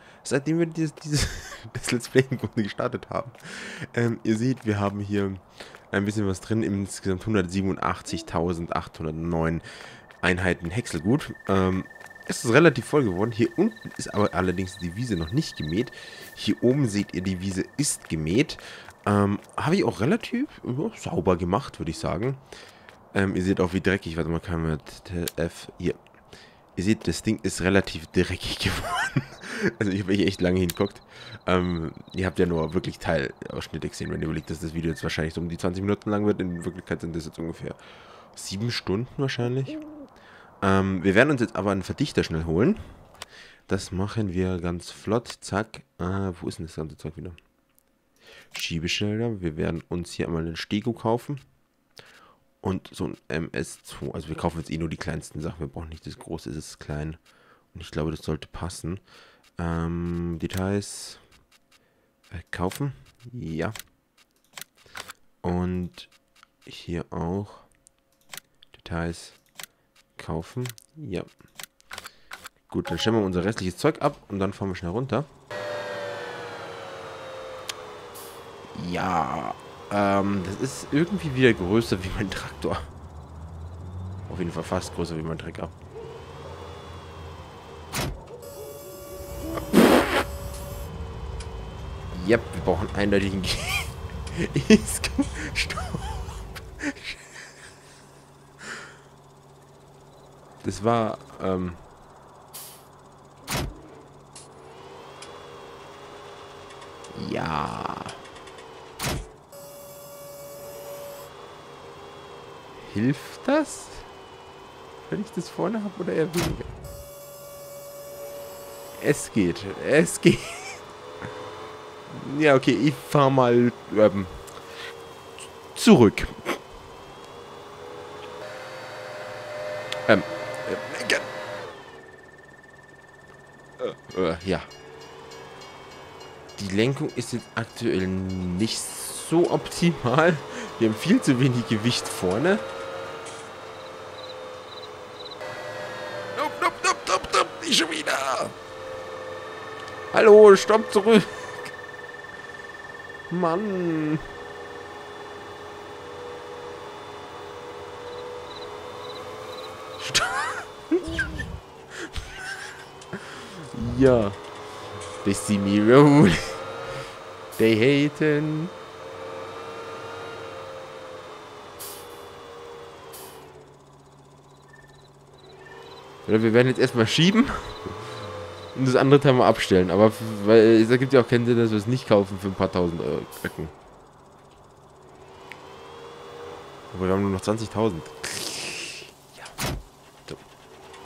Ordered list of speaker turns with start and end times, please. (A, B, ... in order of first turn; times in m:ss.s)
0:00.2-0:09.6 A
0:10.2-0:22.4 A
0:23.1-0:26.0 A
0:26.7-0:37.8 A
0:38.3-0:39.8 A
0:40.6-0:42.8 A
0:43.7-0:47.4 A
0:48.5-0:51.4 A
0:52.6-0:57.2 A
0:57.7-0:59.0 A
0:59.6-1:01.2 A
1:02.3-1:03.7 A
1:05.4-1:06.1 A
1:06.6-1:07.6 A
1:08.7-1:09.4 A
1:10.2-1:11.3 A
1:12.7-1:15.3 A
1:18.7-1:22.9 A
1:24.3-1:25.7 A
1:32.1-1:37.2 A
1:40.6-1:41.8 A
1:47.1-1:48.2 A
1:52.8-1:54.1 A
1:55.1-1:56.7 A
1:59.0-2:00.8 A
2:02.1-2:04.5 A
2:05.7-2:06.6 A
2:10.1-2:11.3 A
2:13.8-2:14.7 A
2:16.6-2:22.6 A
2:26.3-2:28.5 A
2:30.1-2:31.5 A
2:33.3-2:34.2 A
2:40.0-2:41.4 A
2:43.2-2:44.4 A
2:45.2-2:46.6 A
2:47.6-2:48.7 A
2:56.2-2:57.9 A
2:58.7-3:03.7 A
3:06.9-3:09.5 A